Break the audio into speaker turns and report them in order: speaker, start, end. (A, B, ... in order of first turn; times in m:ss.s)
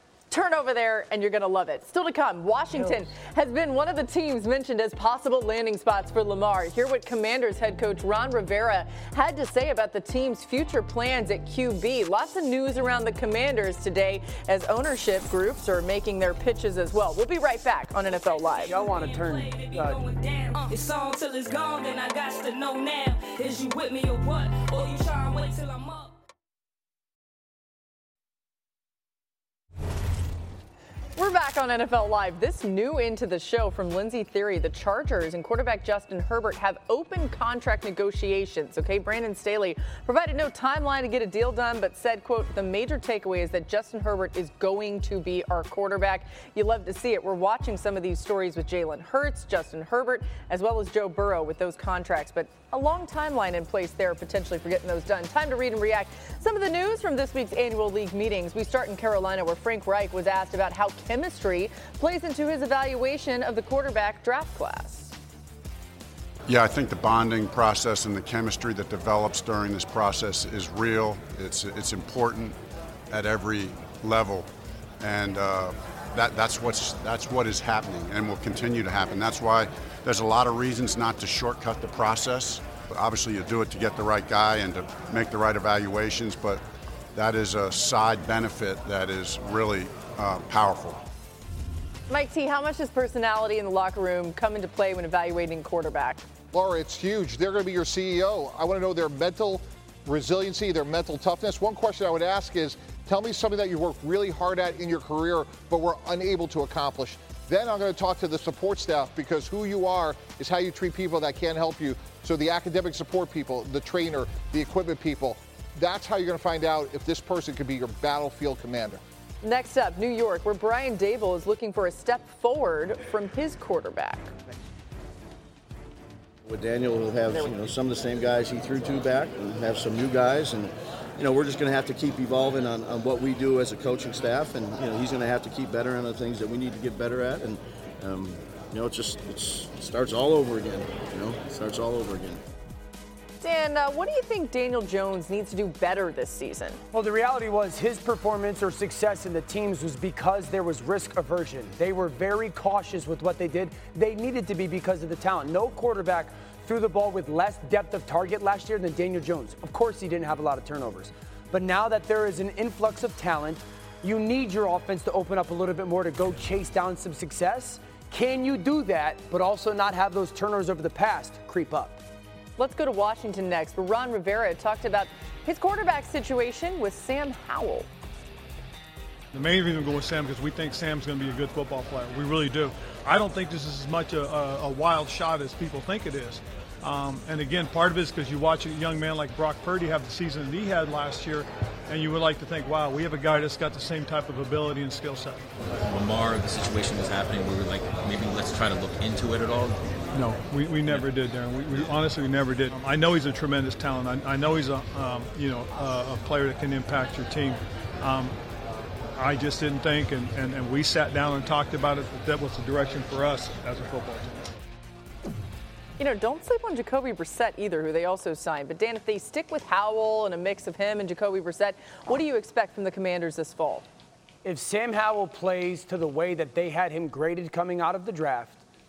0:00.3-0:18.8 A
0:18.2-0:26.1 B
0:18.7-0:20.1 C
0:31.2-1:05.2 A
1:06.5-1:12.6 D
1:13.1-1:14.5 D
1:15.0-1:26.6 D
1:27.1-1:31.0 D
1:32.1-1:36.3 A
1:36.5-1:59.0 E
1:59.4-2:04.3 A
2:06.4-2:22.4 F
2:23.4-2:26.8 A
2:26.9-2:52.0 C
2:52.6-2:57.9 A
2:59.3-3:15.5 G
3:15.9-3:19.7 H
3:20.1-3:28.4 G
3:29.2-3:34.5 G
3:36.0-3:43.9 A
3:44.4-3:48.6 C